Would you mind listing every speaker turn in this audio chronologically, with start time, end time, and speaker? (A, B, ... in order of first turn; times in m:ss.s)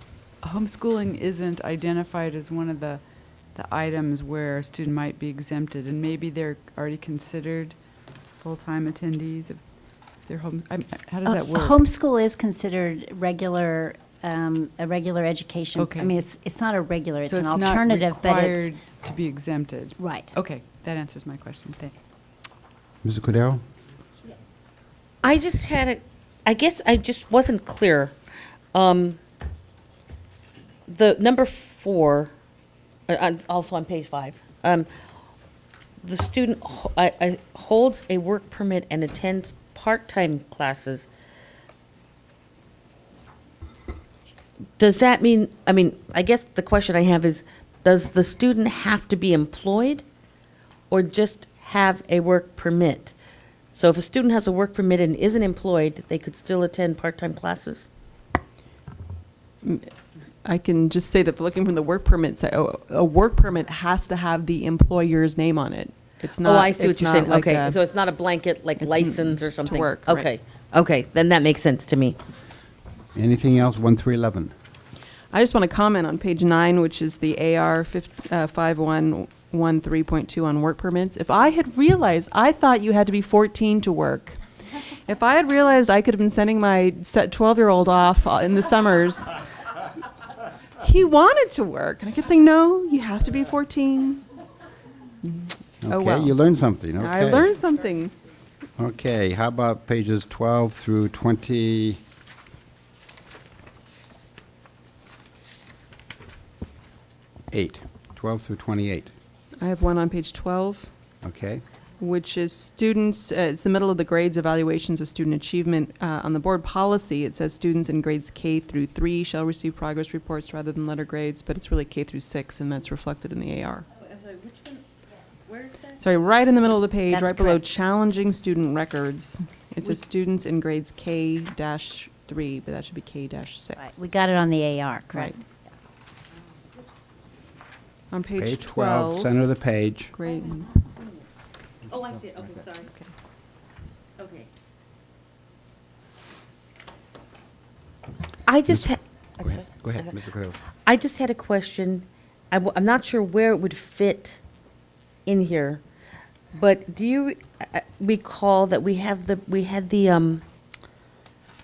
0:00.4-0:03.0 A
0:03.5-0:07.8 A
0:08.3-0:09.6 A
0:10.2-0:11.8 A
0:11.2-0:18.7 B
0:15.8-0:16.1 A
0:17.2-0:21.9 A
0:20.0-0:20.3 B
0:23.0-0:23.6 C
0:25.2-0:28.1 D
0:28.7-0:29.2 D
0:30.9-0:32.3 D
0:33.1-0:34.9 D
0:36.0-0:41.1 D
0:44.8-0:50.0 D
0:50.9-0:53.1 D
0:53.8-0:57.9 D
0:59.6-0:59.9 E
1:00.4-1:07.8 E
1:06.4-1:12.2 D
1:08.8-1:10.3 E
1:13.1-1:14.5 C
1:15.3-1:24.4 E
1:25.0-1:29.4 E
1:30.8-1:34.2 E
1:35.2-1:36.4 E
1:35.8-1:37.5 C
1:37.0-1:38.1 E
1:38.8-1:42.0 C
1:47.5-1:49.1 C
1:49.6-1:50.9 E
1:51.2-1:51.6 C
1:52.0-2:03.9 E
2:05.9-2:14.1 E
2:07.1-2:07.6 B
2:13.8-2:15.4 B
2:15.1-2:15.4 E
2:18.1-2:19.3 E
2:18.4-2:20.1 C
2:20.1-2:20.8 E
2:22.8-2:23.0 E
2:28.4-2:30.1 D
2:29.4-2:30.6 C
2:30.8-2:34.4 D
2:35.2-2:35.8 D
2:36.5-2:40.4 D